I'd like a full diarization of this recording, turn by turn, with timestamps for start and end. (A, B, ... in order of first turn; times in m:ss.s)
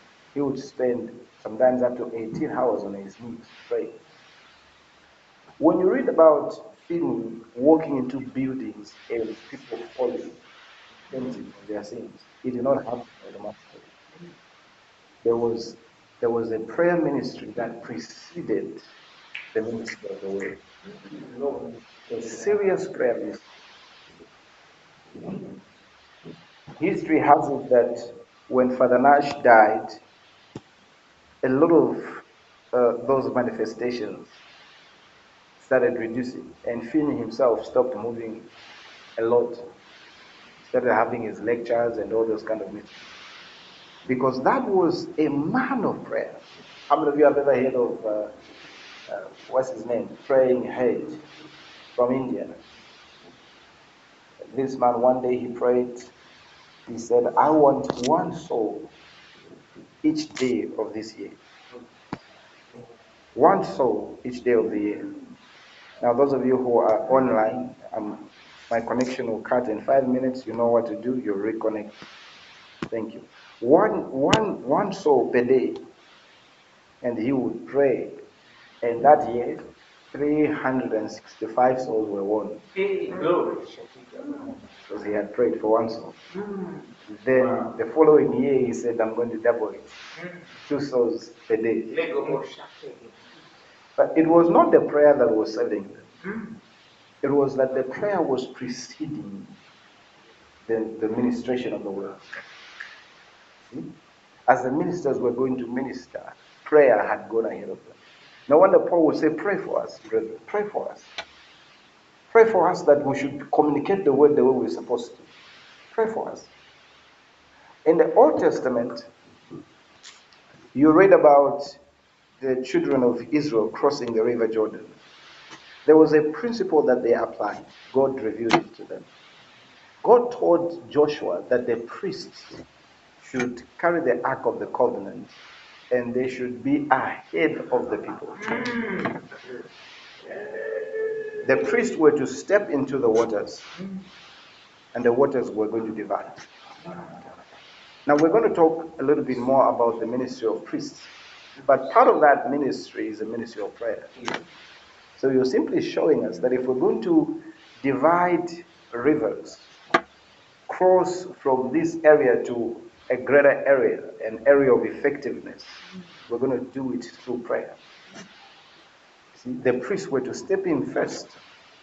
0:00.3-0:04.0 A
0:05.6-0:10.4 A
0:11.1-0:13.9 A
0:15.2-0:18.8 A
0:19.5-0:20.6 A
0:21.1-0:21.8 B
0:22.1-0:23.5 A
0:26.8-0:30.0 A
0:31.4-0:34.3 A
0:35.6-0:38.5 A
0:39.2-0:39.7 A
0:40.6-0:43.0 A
0:44.1-0:48.3 A
0:49.1-0:51.2 A
0:52.0-0:52.6 A
0:54.5-0:56.1 A
0:56.9-0:58.9 A
1:00.0-1:01.4 A
1:03.4-1:05.2 A
1:06.0-1:12.0 A
1:12.9-1:15.8 A
1:17.0-1:18.2 A
1:18.8-1:22.6 A
1:22.7-1:24.6 B
1:24.9-1:26.2 A
1:26.3-1:26.9 B
1:27.1-1:30.0 A
1:30.7-1:32.0 A
1:31.9-1:33.2 B
1:34.0-1:36.0 A
1:37.2-1:39.5 A
1:40.7-1:42.3 A
1:44.5-1:51.1 A
1:52.3-1:55.3 A
1:55.9-1:56.5 A
1:57.8-1:59.1 A
2:00.7-2:01.8 A
2:02.4-2:05.0 A
2:05.8-2:09.1 A
2:10.0-2:12.6 A
2:13.2-2:15.4 A
2:15.9-2:18.8 A
2:21.4-2:23.7 A
2:24.9-2:26.5 A
2:28.1-2:31.1 A
2:31.6-2:34.2 A
2:35.2-2:39.7 A
2:40.7-2:47.8 A
2:49.4-2:51.4 A